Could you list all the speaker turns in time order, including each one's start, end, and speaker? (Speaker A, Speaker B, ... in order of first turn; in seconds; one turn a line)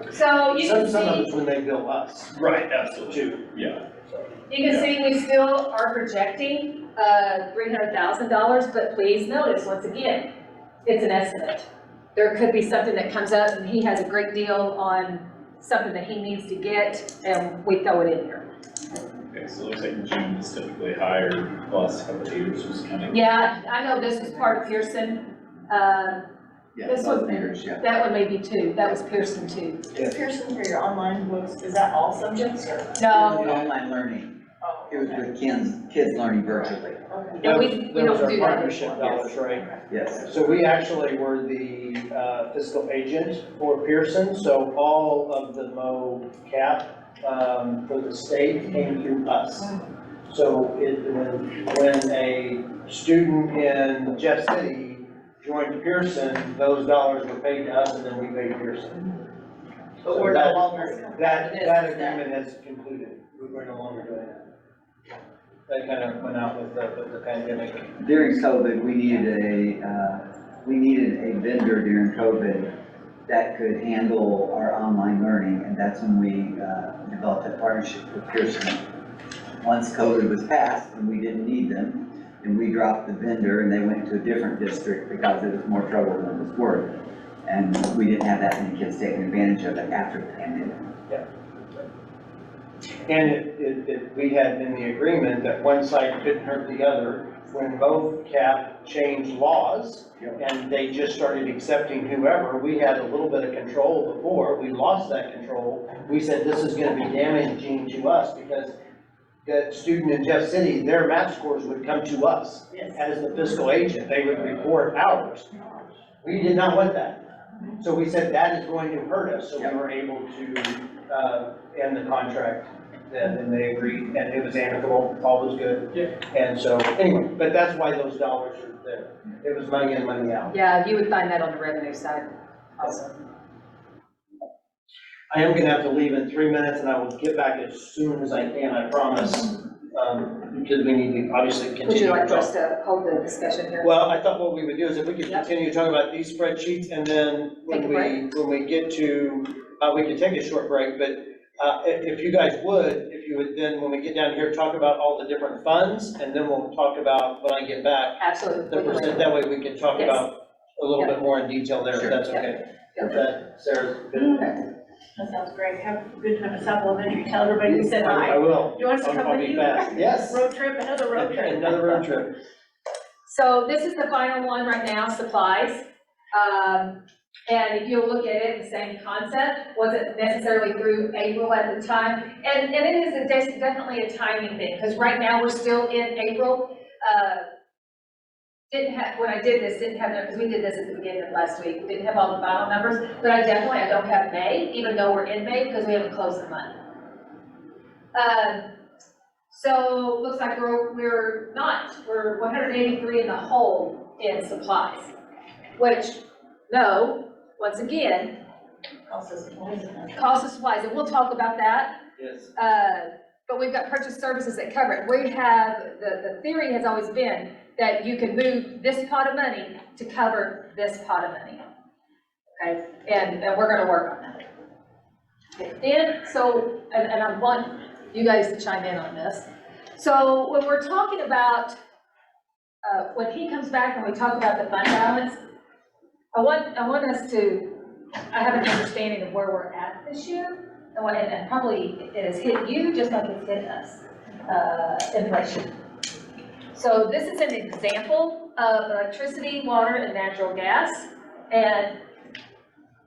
Speaker A: 0.1-1.3
Speaker B: 0.5-3.5
Speaker C: 2.5-3.9
Speaker A: 4.5-10.3
Speaker A: 10.8-18.4
Speaker C: 19.3-23.2
Speaker A: 23.1-26.2
Speaker D: 26.7-27.8
Speaker A: 26.9-29.9
Speaker B: 29.9-30.2
Speaker E: 29.9-33.6
Speaker A: 33.0-33.5
Speaker D: 33.1-37.0
Speaker E: 34.6-35.2
Speaker E: 37.1-37.4
Speaker A: 37.4-39.4
Speaker B: 37.4-39.7
Speaker D: 39.9-40.3
Speaker B: 40.2-49.8
Speaker B: 50.3-59.1
Speaker E: 60.0-62.2
Speaker B: 60.1-64.5
Speaker B: 65.7-68.0
Speaker D: 68.0-72.7
Speaker D: 73.3-78.8
Speaker D: 79.6-90.9
Speaker B: 93.1-108.8
Speaker B: 109.5-115.5
Speaker E: 112.7-113.5
Speaker E: 115.5-115.9
Speaker B: 116.2-117.2
Speaker B: 117.8-130.5
Speaker A: 130.5-133.2
Speaker B: 135.3-142.5
Speaker A: 141.9-143.9
Speaker B: 143.8-164.6
Speaker A: 147.7-148.2
Speaker A: 158.2-159.3
Speaker A: 160.0-160.2
Speaker D: 161.9-162.2
Speaker A: 162.3-163.1
Speaker E: 164.2-164.5
Speaker E: 165.2-172.0
Speaker B: 167.7-170.4
Speaker B: 171.2-172.3
Speaker A: 173.3-187.4
Speaker A: 188.7-196.8
Speaker A: 198.1-198.7
Speaker A: 199.5-205.1
Speaker A: 205.8-208.3
Speaker E: 209.1-210.2
Speaker A: 210.1-211.9
Speaker B: 212.2-212.5
Speaker A: 212.6-221.7
Speaker A: 222.6-224.5
Speaker A: 225.6-231.8
Speaker A: 232.8-235.4
Speaker A: 236.3-245.7
Speaker A: 246.7-251.9